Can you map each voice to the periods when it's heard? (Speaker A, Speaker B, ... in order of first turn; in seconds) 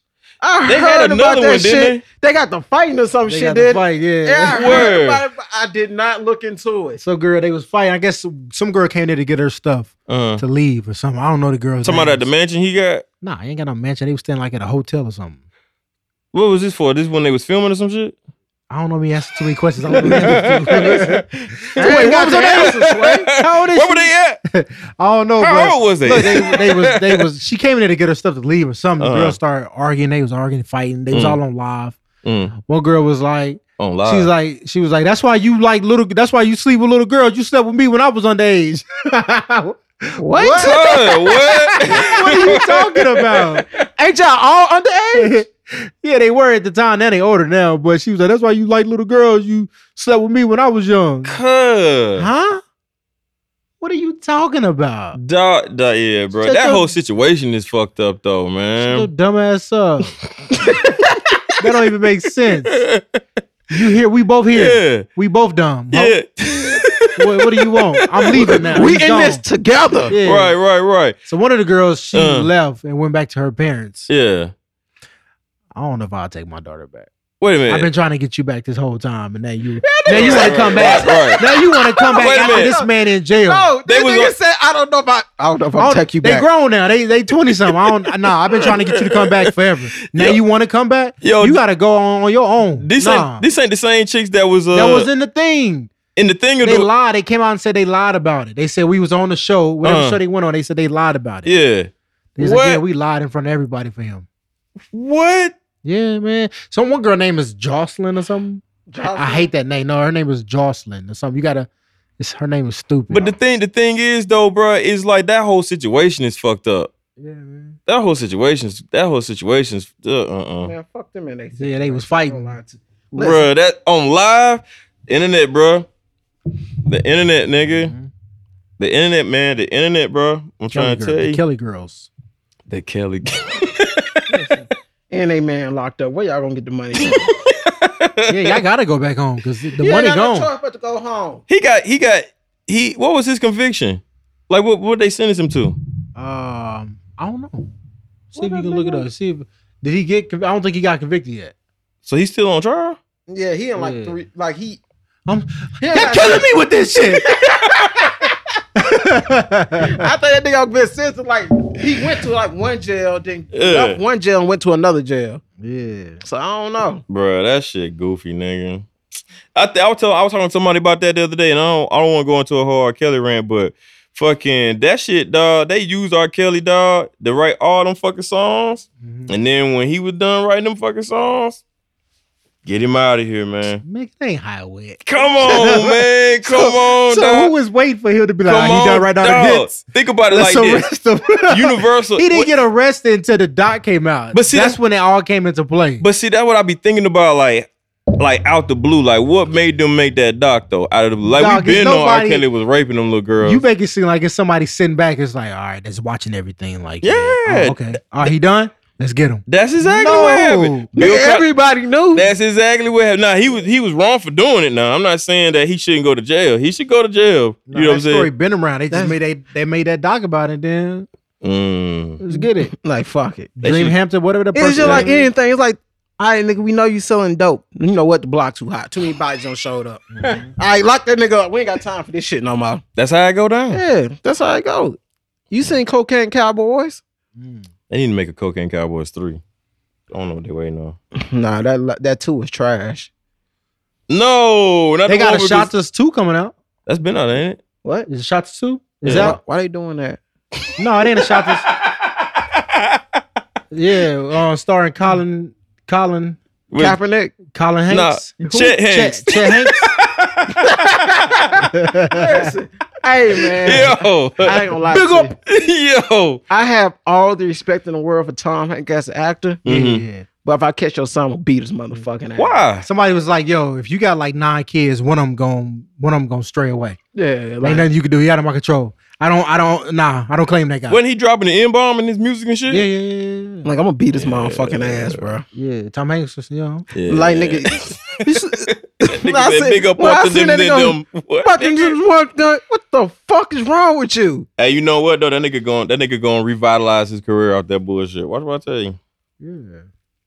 Speaker A: 0.4-7.0, 20.0-21.1, 21.8-23.3, 40.2-41.0, 41.9-42.6, 44.0-45.4, 60.5-61.2, 68.4-70.2, 79.8-82.9, 83.4-86.5, 108.9-109.5, 120.6-123.5, 135.1-137.3, 139.8-141.4, 148.3-149.1, 153.3-154.8, 155.8-158.3, 159.8-165.4, 166.2-167.0, 210.9-212.3, 218.9-219.2, 222.3-223.6, 224.5-232.8, 233.7-235.0, 235.5-237.0, 241.1-243.1, 249.1-250.2, 256.8-257.4, 260.5-265.3, 266.5-269.6, 270.4-272.6, 277.1-277.9, 283.6-285.4, 287.1-294.5
Speaker B: 0.7-2.0, 4.5-5.2, 10.1-10.4, 11.8-13.0, 16.3-18.1, 19.9-24.4, 25.4-27.3, 29.0-29.4, 31.1-31.4, 32.2-32.5, 33.8-34.3, 40.5-43.6, 51.2-52.3, 55.1-59.1, 62.6-63.2, 64.5-65.0, 65.9-68.7, 70.2-71.2, 72.1-72.5, 74.1-74.5, 77.4-77.9, 80.1-81.4, 82.1-82.7, 83.8-84.3, 87.7-89.5, 90.0-90.4, 91.2-91.6, 92.8-95.1, 96.2-96.9, 99.8-100.2, 101.4-102.8, 104.9-105.5, 113.1-116.9, 117.9-120.7, 123.2-125.9, 126.8-127.9, 128.8-131.4, 132.7-134.6, 137.0-138.6, 141.5-145.8, 152.0-153.0, 163.5-164.0, 167.1-168.9, 169.5-181.6, 182.6-183.8, 185.0-187.5, 188.4-190.9, 191.5-192.5, 194.3-194.8, 196.0-203.6, 207.0-207.9, 209.5-211.4, 212.1-218.3, 221.4-222.2, 223.6-223.9, 224.8-225.1, 232.9-233.8, 237.9-239.4, 240.1-240.9, 244.1-245.7, 246.8-247.6, 249.0-249.4, 250.6-253.2, 256.7-257.0, 257.9-261.2, 263.6-264.7, 265.4-266.4, 269.6-270.0, 272.4-272.9, 280.9-282.8, 284.1-285.3, 286.9-288.0, 288.7-291.9, 294.6-299.0
Speaker C: 3.3-4.9, 7.0-12.3, 13.2-15.4, 18.7-32.0, 32.6-43.6, 45.1-51.4, 52.1-52.6, 53.8-55.2, 56.4-56.9, 58.8-60.2, 61.6-62.8, 63.7-66.2, 67.1-69.4, 70.1-70.5, 71.2-74.1, 75.7-77.1, 77.7-83.7, 85.8-93.4, 94.7-95.9, 96.6-101.5, 102.3-104.2, 105.8-108.6, 109.2-111.7, 112.2-113.3, 117.2-117.8, 121.6-122.5, 127.8-128.1, 130.7-132.1, 138.3-140.5, 146.2-147.7, 148.3-151.5, 153.8-154.2, 155.3-157.3, 158.8-160.0, 165.6-166.2, 179.0-179.3, 183.8-196.0, 201.3-202.4, 203.4-210.9, 217.7-221.1, 222.2-222.7, 223.6-225.3, 230.1-230.5, 237.4-237.7, 245.1-246.5, 248.1-249.4, 250.8-251.7, 253.7-256.4, 257.5-259.9, 261.7-262.5, 264.9-265.3, 269.6-270.2, 272.8-277.0, 277.6-281.0, 282.7-283.7, 285.5-286.9, 299.4-299.8